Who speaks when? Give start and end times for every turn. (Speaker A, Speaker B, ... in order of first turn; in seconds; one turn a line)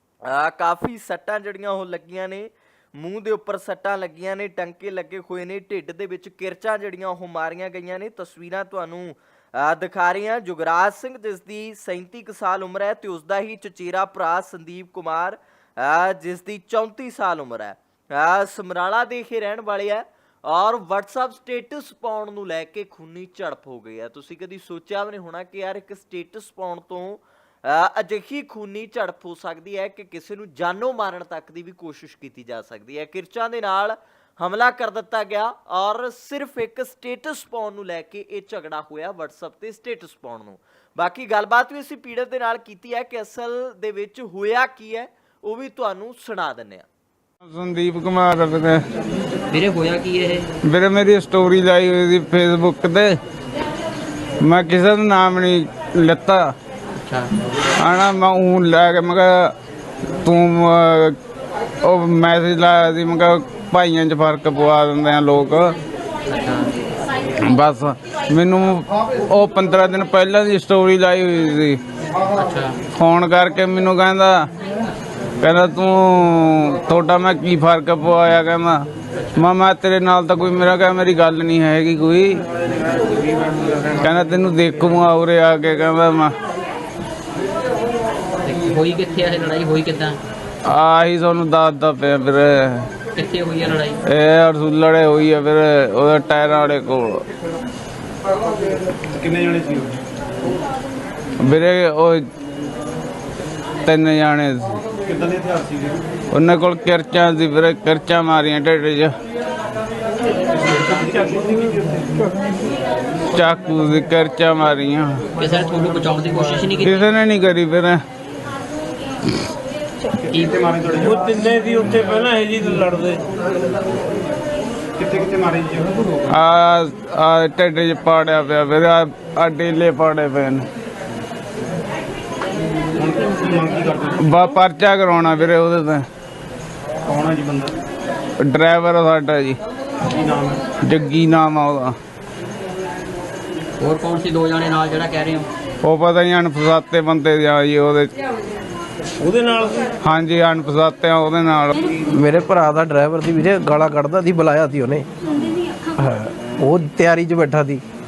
Speaker A: 0.3-46.9
Speaker B: 47.4-48.8
Speaker C: 49.5-50.5
Speaker B: 50.6-53.2
Speaker B: 54.4-56.5
Speaker C: 57.0-57.3
Speaker B: 57.8-59.5
Speaker B: 60.2-61.2
Speaker B: 61.8-65.8
Speaker C: 66.3-66.8
Speaker B: 67.4-71.8
Speaker C: 72.2-72.8
Speaker B: 73.0-74.5
Speaker B: 75.4-82.4
Speaker C: 79.1-79.4
Speaker B: 84.0-86.3
Speaker C: 88.4-90.2
Speaker B: 90.7-92.9
Speaker C: 93.2-94.0
Speaker B: 94.1-97.2
Speaker D: 99.1-100.0
Speaker B: 101.4-102.2
Speaker B: 103.9-104.8
Speaker D: 105.0-106.0
Speaker B: 106.3-109.1
Speaker D: 110.7-112.2
Speaker E: 110.9-111.5
Speaker B: 113.3-115.2
Speaker C: 115.4-117.0
Speaker B: 116.8-118.0
Speaker D: 120.2-121.4
Speaker C: 120.3-120.6
Speaker E: 121.0-123.2
Speaker D: 125.0-126.4
Speaker B: 126.3-130.7
Speaker D: 133.0-134.3
Speaker B: 134.2-136.1
Speaker D: 137.1-137.8
Speaker B: 138.4-139.6
Speaker D: 140.1-140.6
Speaker B: 140.8-141.9
Speaker C: 143.8-145.5
Speaker B: 145.8-148.1
Speaker E: 149.2-149.9
Speaker B: 150.0-151.9
Speaker F: 152.1-155.1
Speaker F: 156.0-157.8